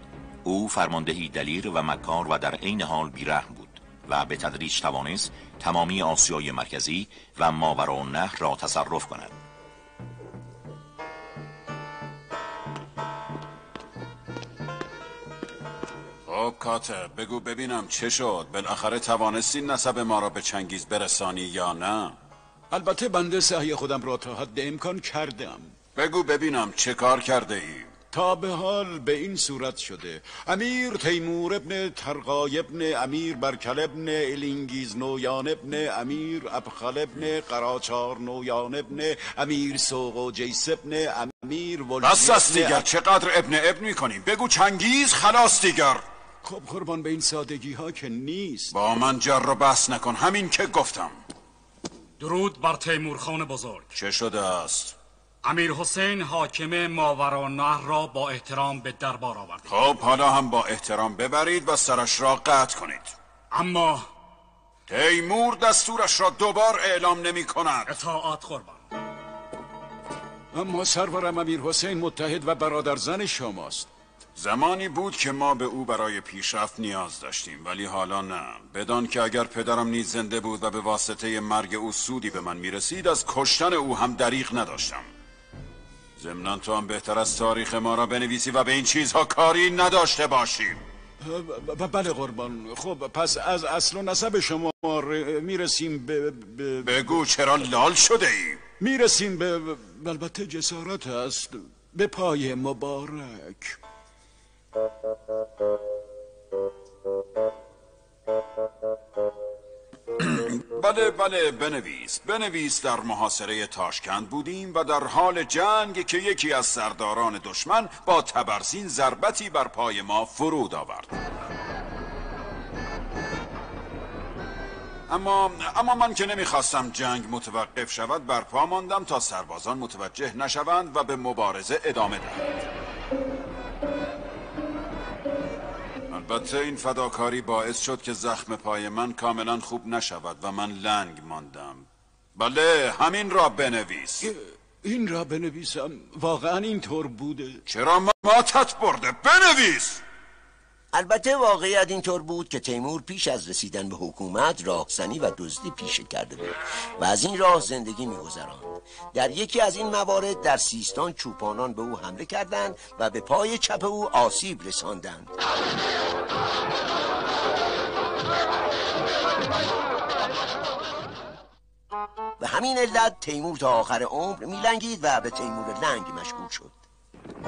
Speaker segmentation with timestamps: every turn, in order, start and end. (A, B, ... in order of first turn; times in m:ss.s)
0:00.4-0:09.4 A
0:16.3-0:22.2 B
0:22.7-0:25.7 C
0:26.0-0:27.9 B
0:28.1-0:42.8 C
0:42.0-0:46.0 B
0:46.4-0:48.7 C
0:48.7-0:51.2 B
0:52.2-0:53.9 D
0:54.0-0:55.0 B
0:55.4-0:59.7 D
0:59.7-1:03.1 B
1:03.5-1:04.1 D
1:04.9-1:08.0 B
1:07.9-1:08.8 D
1:10.5-1:13.9 C
1:14.4-1:25.1 B
1:26.2-1:30.8 B
1:31.2-1:37.1 C
1:36.8-1:38.6 B
1:38.8-1:43.8 C
1:50.2-2:01.2 B
2:05.1-2:12.5 B
2:16.1-2:24.3 B
2:24.2-2:27.6 C
2:27.7-2:30.0 B
2:30.9-2:45.3 E
2:52.4-2:56.8 E